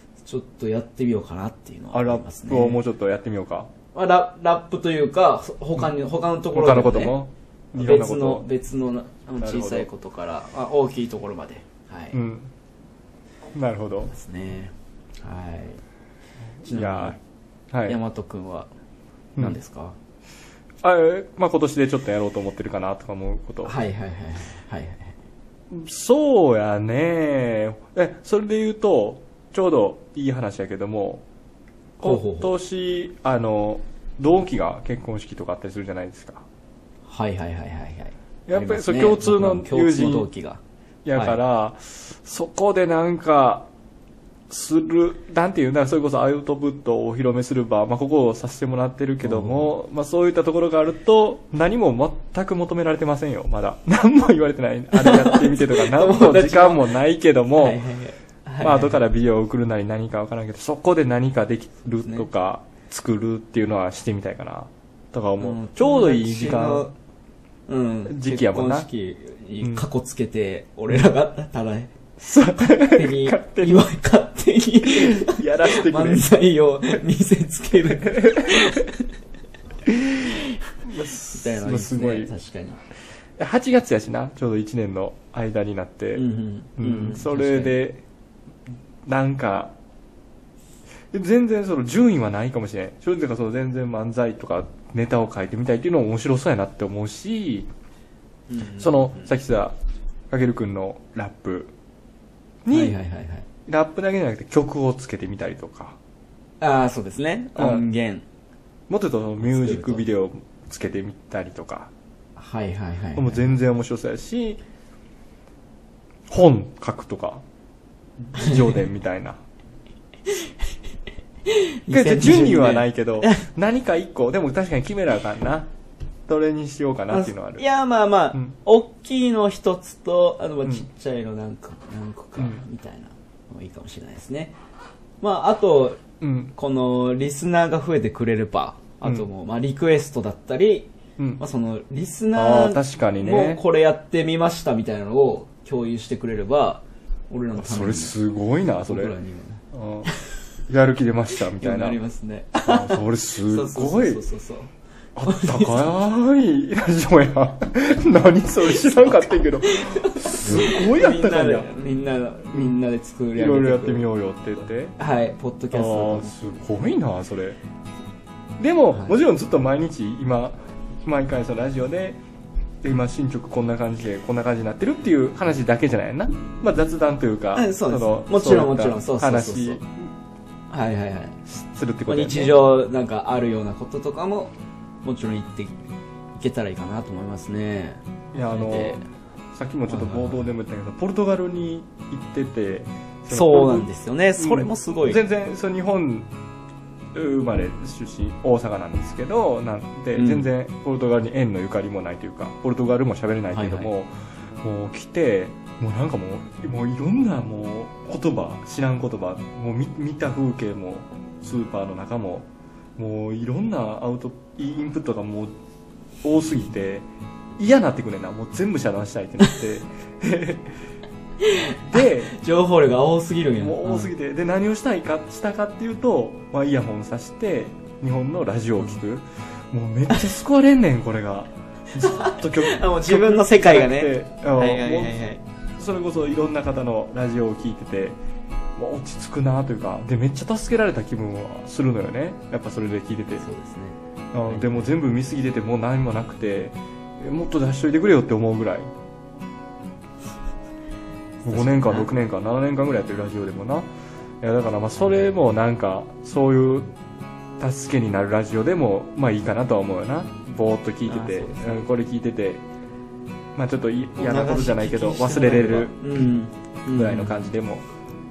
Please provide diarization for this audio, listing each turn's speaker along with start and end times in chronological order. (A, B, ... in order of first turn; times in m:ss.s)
0:00.3-0:02.8 A
0:01.9-0:03.7 B
0:03.9-0:07.2 A
0:06.5-0:08.5 B
0:07.8-0:12.2 A
0:09.4-0:09.9 B
0:12.1-0:12.5 B
0:13.6-0:14.1 B
0:14.1-0:15.8 A
0:16.6-0:17.2 B
0:16.6-0:17.2 A
0:17.7-0:18.0 B
0:17.9-0:18.7 A
0:19.4-0:20.0 A
0:20.8-0:23.7 B
0:23.6-0:25.2 A
0:25.7-0:31.2 B
0:32.0-0:36.4 B
0:32.0-0:32.5 A
0:37.1-0:40.6 A
0:38.5-0:40.3 B
0:41.0-0:43.7 B
0:44.5-0:57.8 B
0:49.2-0:49.7 A
0:54.9-0:56.9 A
0:57.6-0:59.0 A
0:58.6-1:06.9 B
1:02.0-1:02.3 A
1:05.4-1:06.9 A
1:07.7-1:11.9 A
1:08.1-1:08.9 B
1:09.6-1:09.9 B
1:12.2-1:13.8 B
1:12.6-1:18.9 A
1:14.9-1:16.2 B
1:17.8-1:18.8 B
1:19.9-1:20.3 B
1:20.2-1:20.5 A
1:20.9-1:22.3 B
1:21.0-1:22.8 A
1:23.4-1:26.2 B
1:26.2-1:27.8 A
1:26.8-1:28.0 B
1:29.1-1:29.7 B
1:31.1-1:37.7 B
1:38.5-1:39.3 A
1:38.8-1:39.8 B
1:40.3-1:41.7 B
1:42.6-1:43.0 B
1:42.7-1:43.4 A
1:43.7-1:46.0 B
1:46.6-1:48.2 A
1:47.6-1:47.8 B
1:48.9-1:51.9 B
1:49.4-1:50.0 A
1:52.4-1:53.6 A
1:53.2-1:54.6 B
1:56.3-1:57.4 B
1:58.2-1:59.4 B
1:58.4-1:58.8 A
2:01.5-2:03.5 A
2:01.9-2:05.7 B
2:06.3-2:07.6 B
2:07.1-2:14.6 A
2:15.2-2:16.0 A
2:16.2-2:16.5 B
2:16.6-2:28.2 A
2:22.4-2:23.6 B
2:27.6-2:29.1 B
2:28.9-2:30.4 A
2:29.7-2:30.1 B
2:30.7-2:32.0 B
2:31.6-2:34.7 A
2:32.6-2:34.2 B
2:35.2-2:41.7 B
2:35.3-2:35.9 A
2:38.6-2:44.1 A
2:42.5-2:42.8 B
2:43.4-2:45.0 B
2:45.0-2:46.3 A
2:45.7-2:47.6 B
2:48.6-2:52.2 B
2:52.8-3:00.1 B
2:57.5-2:59.8 A
3:00.7-3:01.4 A
3:01.5-3:02.6 B
3:02.1-3:05.8 A
3:06.4-3:09.1 A
3:08.3-3:09.0 B
3:09.5-3:16.3 B
3:09.9-3:10.4 A
3:13.3-3:15.2 A
3:17.1-3:35.5 B
3:20.2-3:20.5 A
3:23.5-3:23.9 A
3:36.2-3:37.1 B
3:37.6-3:40.8 B
3:41.4-3:44.1 A
3:41.8-3:42.3 B
3:43.6-3:55.2 B
3:52.0-3:55.4 A
3:55.8-3:58.2 B
3:58.8-4:03.4 B
4:03.4-4:04.9 A
4:04.3-4:08.9 B
4:11.4-4:12.1 A
4:11.5-4:13.9 B
4:14.4-4:16.9 B
4:15.0-4:15.4 A
4:17.6-4:22.6 B
4:21.1-4:21.9 A
4:23.6-4:26.1 B
4:24.2-4:27.4 A
4:26.9-4:27.8 B